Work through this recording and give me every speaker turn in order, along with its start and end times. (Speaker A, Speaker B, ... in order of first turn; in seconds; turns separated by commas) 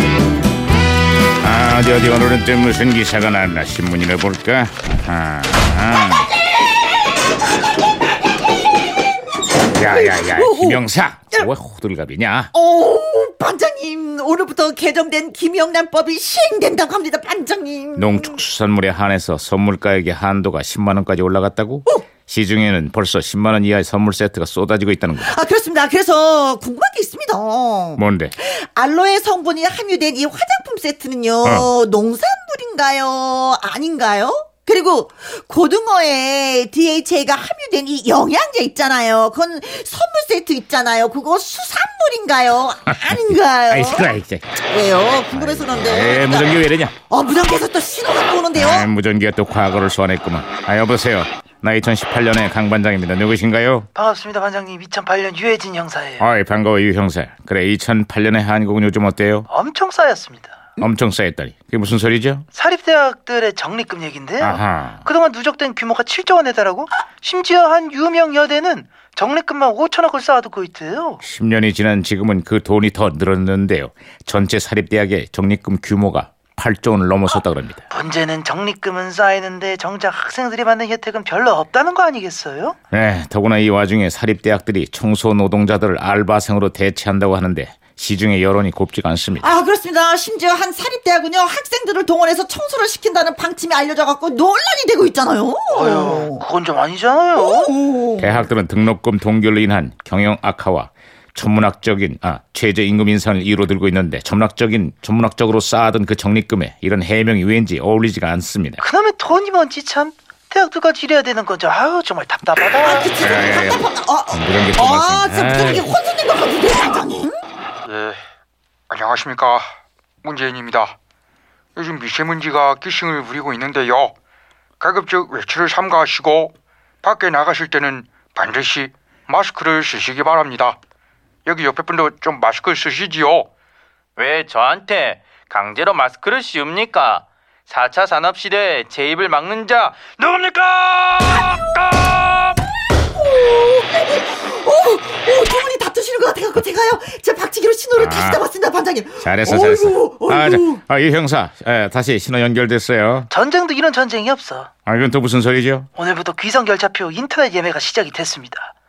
Speaker A: 1.4-6.3, Speaker A: 9.7-12.5, Speaker B: 9.8-10.8, Speaker B: 12.5-18.4, Speaker A: 18.0-25.3, Speaker B: 25.2-44.1, Speaker A: 28.0-28.4, Speaker A: 31.4-31.7, Speaker A: 42.9-44.5, Speaker B: 44.6-48.9, Speaker A: 45.3-47.0, Speaker A: 48.5-53.9, Speaker C: 54.0-56.3, Speaker A: 56.2-59.5, Speaker C: 59.5-60.6, Speaker A: 60.8-62.5, Speaker C: 62.5-71.2, Speaker A: 64.4-65.0, Speaker A: 71.2-77.8, Speaker C: 77.9-82.8, Speaker A: 82.9-89.5, Speaker B: 89.4-96.4, Speaker C: 95.7-97.7, Speaker B: 97.4-98.4, Speaker A: 98.2-108.8, Speaker C: 108.8-113.1, Speaker B: 112.8-117.4, Speaker A: 113.2-115.9, Speaker D: 117.8-118.2, Speaker D: 118.9-119.7, Speaker D: 120.2-121.0, Speaker D: 121.8-124.1, Speaker D: 124.8-130.8, Speaker D: 131.5-133.5, Speaker E: 134.2-140.1, Speaker D: 140.2-142.3, Speaker B: 143.1-150.8, Speaker A: 148.0-148.4, Speaker A: 149.2-153.3, Speaker C: 153.3-154.7, Speaker A: 154.9-155.9, Speaker C: 156.0-158.7